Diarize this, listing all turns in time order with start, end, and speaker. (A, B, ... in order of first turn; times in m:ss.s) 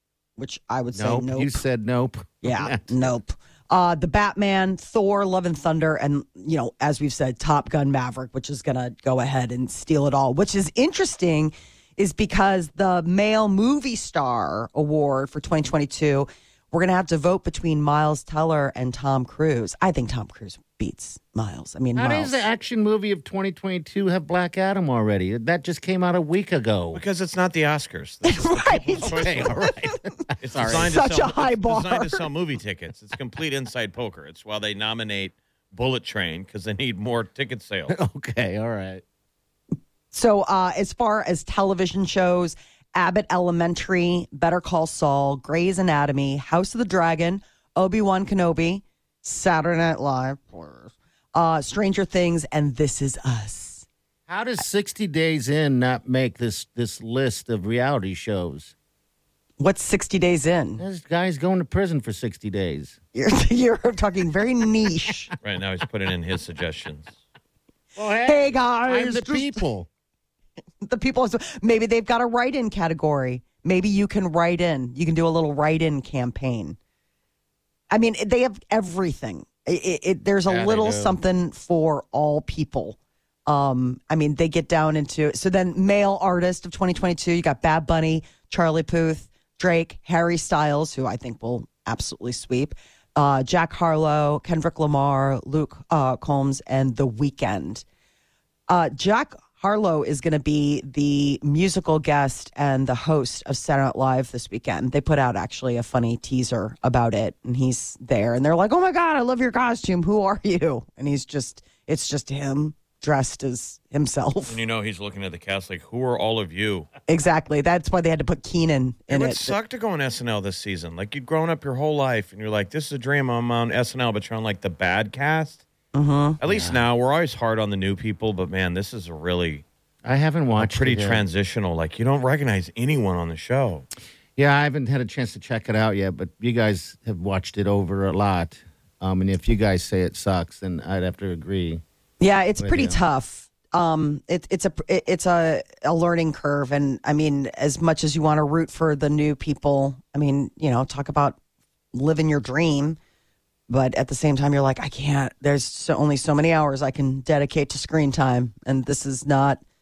0:00.4-0:01.6 A
0:00.9-0:03.1 B
0:02.4-0:22.4 A
0:22.0-0:27.0 B
0:26.9-0:29.5 C
0:28.2-0:29.7 A
0:29.0-0:30.9 B
0:30.4-0:38.0 C
0:30.7-0:32.2 A
0:37.9-0:39.0 B
0:40.1-0:53.8 A
0:54.3-0:58.7 B
0:59.6-1:00.8 A
1:00.8-1:03.0 B
1:03.1-1:05.3 A
1:05.4-1:07.1 C
1:08.0-1:09.9 B
1:08.1-1:09.6 A
1:10.8-1:16.8 A
1:17.9-1:37.8 A
1:20.5-1:21.2 B
1:38.7-1:54.6 A
1:54.5-1:56.9 C
1:57.1-1:59.5 A
1:59.1-2:05.6 C
2:05.9-2:06.4 A
2:06.4-2:09.6 C
2:06.4-2:06.8 B
2:10.0-2:11.2 B
2:10.6-2:13.8 C
2:14.4-2:21.8 B
2:22.2-2:31.4 A
2:22.6-2:23.0 B
2:31.9-2:33.0 A
2:33.7-2:39.6 A